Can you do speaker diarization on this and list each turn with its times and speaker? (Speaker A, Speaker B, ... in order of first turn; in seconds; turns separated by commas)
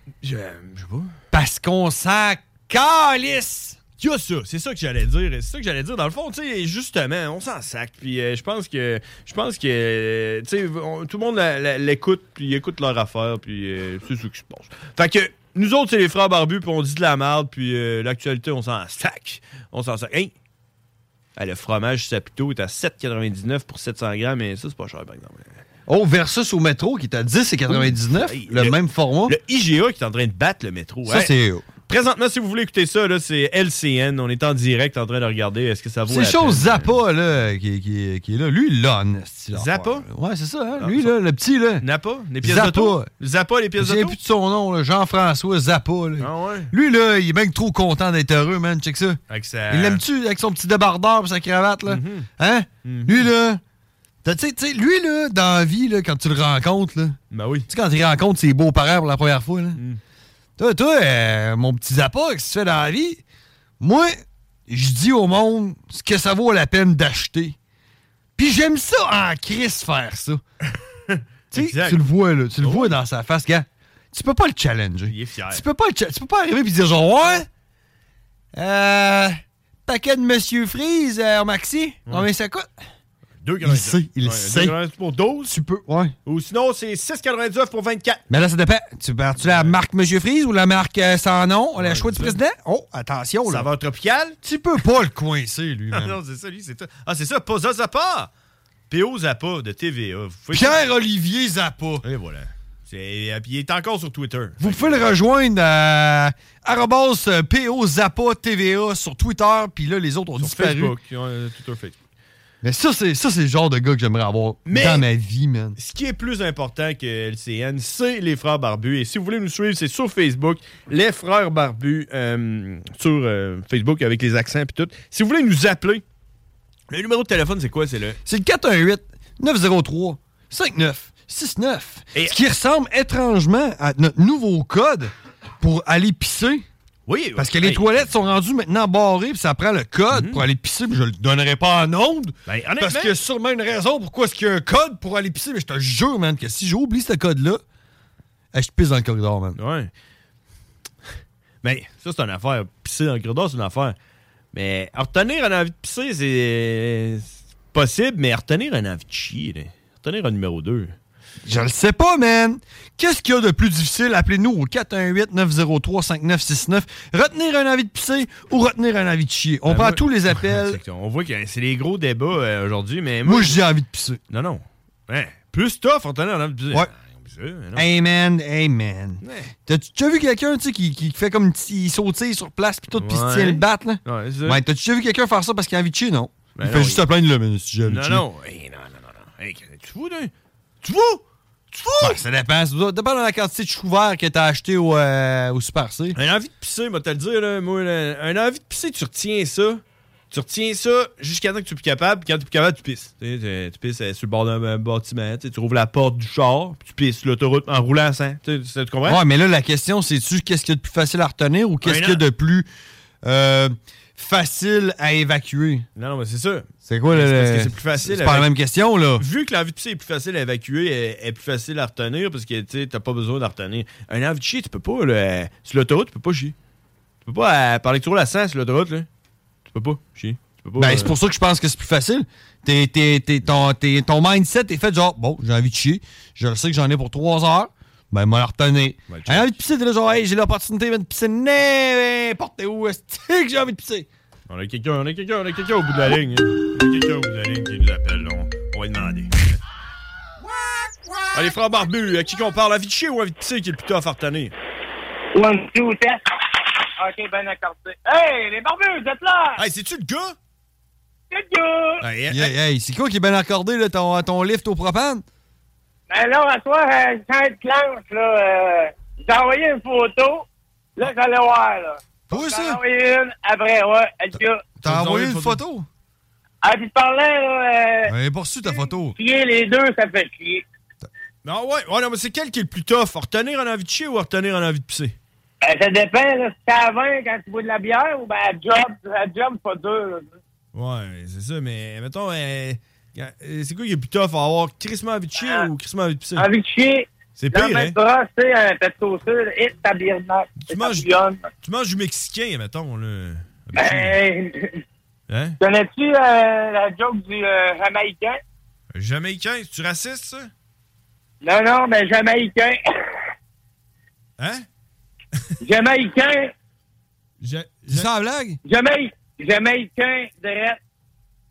Speaker A: 0.2-1.1, Speaker B: 1.3-3.8, Speaker A: 4.0-20.3, Speaker A: 21.4-25.5, Speaker B: 25.9-29.4, Speaker A: 27.7-31.3, Speaker B: 31.1-31.6, Speaker A: 31.9-37.0, Speaker B: 36.1-41.8, Speaker A: 39.5-40.1, Speaker A: 40.8-41.1, Speaker A: 41.8-44.2, Speaker B: 42.4-43.1, Speaker B: 43.8-53.6, Speaker A: 46.2-46.7, Speaker A: 49.3-50.0, Speaker A: 51.9-52.3, Speaker A: 52.8-53.3, Speaker B: 54.2-59.8, Speaker A: 57.3-57.7, Speaker B: 60.6-63.2, Speaker B: 63.8-67.6, Speaker B: 68.4-70.4, Speaker A: 71.1-72.0, Speaker B: 71.5-77.5, Speaker A: 72.6-73.0, Speaker A: 75.1-75.6, Speaker B: 78.5-82.7, Speaker A: 83.4-85.5, Speaker B: 83.6-84.8, Speaker B: 85.5-86.2, Speaker A: 86.3-88.2, Speaker B: 88.3-93.7, Speaker A: 89.4-89.8, Speaker A: 91.8-92.4, Speaker A: 93.5-94.4, Speaker B: 94.4-96.2, Speaker A: 95.9-98.3, Speaker A: 98.9-100.8, Speaker B: 100.5-102.0, Speaker A: 102.0-105.1, Speaker B: 104.6-111.0, Speaker A: 110.4-112.0, Speaker B: 112.6-115.8, Speaker A: 114.7-115.1, Speaker A: 115.8-126.0, Speaker A: 126.9-128.2, Speaker B: 128.3-136.7, Speaker A: 137.1-138.1, Speaker B: 137.4-147.6, Speaker A: 140.1-140.4, Speaker A: 142.5-143.1, Speaker B: 148.5-149.6, Speaker A: 149.6-149.9, Speaker A: 151.6-154.0, Speaker A: 154.5-160.9, Speaker B: 161.4-170.8, Speaker A: 169.7-173.6, Speaker B: 173.2-174.2, Speaker A: 174.3-177.9, Speaker B: 177.8-188.2, Speaker A: 179.2-179.6, Speaker A: 183.0-184.6, Speaker A: 186.6-187.0, Speaker A: 187.9-190.3, Speaker A: 190.8-192.2, Speaker B: 192.0-196.2, Speaker A: 196.1-209.2, Speaker B: 209.1-212.7, Speaker A: 211.8-212.2, Speaker B: 213.2-215.8, Speaker A: 216.0-218.5, Speaker B: 216.8-219.2, Speaker A: 219.2-226.6, Speaker A: 227.2-229.1, Speaker A: 229.7-231.1, Speaker B: 230.8-244.1, Speaker A: 239.1-239.6, Speaker A: 244.5-249.6, Speaker A: 251.3-254.5, Speaker C: 255.3-256.2, Speaker C: 257.0-259.6, Speaker A: 259.6-260.4, Speaker C: 261.3-262.0, Speaker A: 262.0-262.5, Speaker B: 262.3-265.2, Speaker C: 266.1-270.4, Speaker C: 271.0-274.6, Speaker B: 272.3-272.8, Speaker B: 274.8-275.9, Speaker A: 274.8-275.6, Speaker C: 276.6-278.1, Speaker B: 278.1-279.1, Speaker C: 278.6-280.6, Speaker A: 281.4-285.1, Speaker C: 285.6-290.3, Speaker A: 290.7-296.5, Speaker C: 295.4-295.6, Speaker C: 296.4-301.4, Speaker A: 297.4-297.9, Speaker A: 300.6-301.1, Speaker A: 301.6-304.1, Speaker C: 303.8-304.7, Speaker A: 305.3-305.6, Speaker C: 305.6-308.4, Speaker A: 308.9-310.5, Speaker C: 311.4-312.8, Speaker A: 314.4-314.6, Speaker C: 315.6-316.5, Speaker A: 317.4-318.1, Speaker B: 317.9-318.6, Speaker C: 318.6-320.8